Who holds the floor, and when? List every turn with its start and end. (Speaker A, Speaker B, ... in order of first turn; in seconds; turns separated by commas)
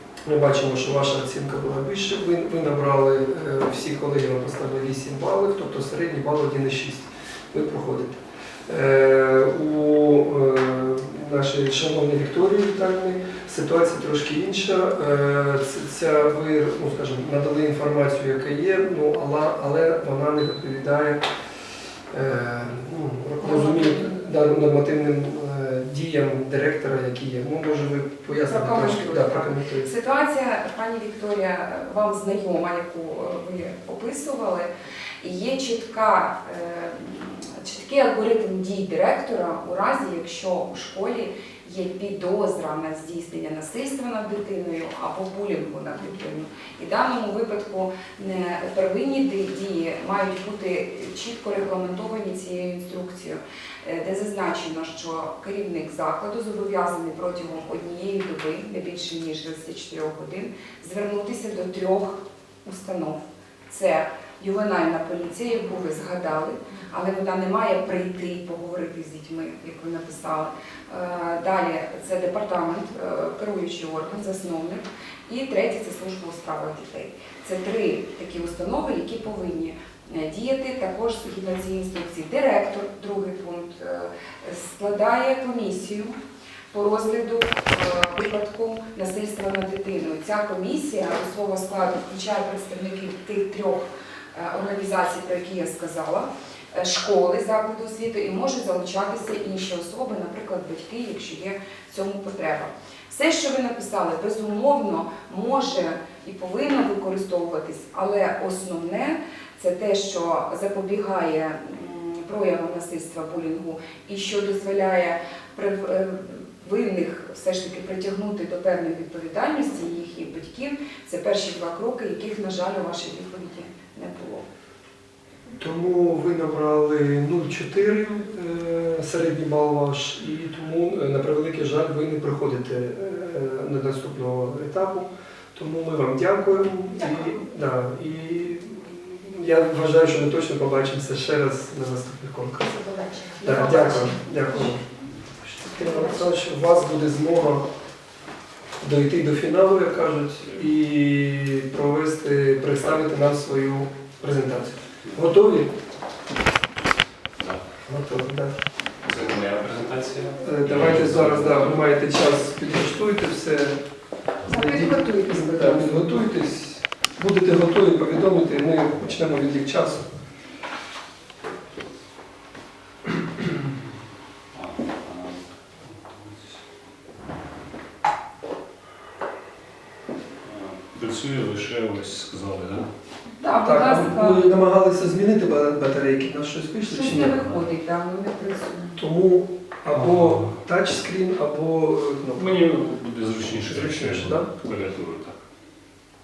Speaker A: 0.3-21.3, Speaker A: 22.1-29.9, Speaker B: 23.4-24.1, Speaker B: 28.3-34.7, Speaker B: 35.2-86.2, Speaker B: 86.7-124.5, Speaker A: 125.5-142.7, Speaker B: 137.0-137.3, Speaker B: 142.6-144.7, Speaker A: 143.4-144.8, Speaker A: 145.5-147.7, Speaker B: 145.6-146.4, Speaker A: 148.8-155.7, Speaker C: 157.4-157.6, Speaker A: 157.9-158.6, Speaker C: 159.0-161.9, Speaker A: 160.4-163.8, Speaker B: 164.5-166.2, Speaker A: 164.5-170.1, Speaker C: 174.5-176.6, Speaker C: 180.4-182.9, Speaker B: 183.4-184.5, Speaker A: 183.6-187.4, Speaker B: 186.9-189.0, Speaker C: 187.1-187.7, Speaker A: 189.0-192.7, Speaker C: 189.9-190.6, Speaker C: 192.4-195.4, Speaker A: 193.6-194.5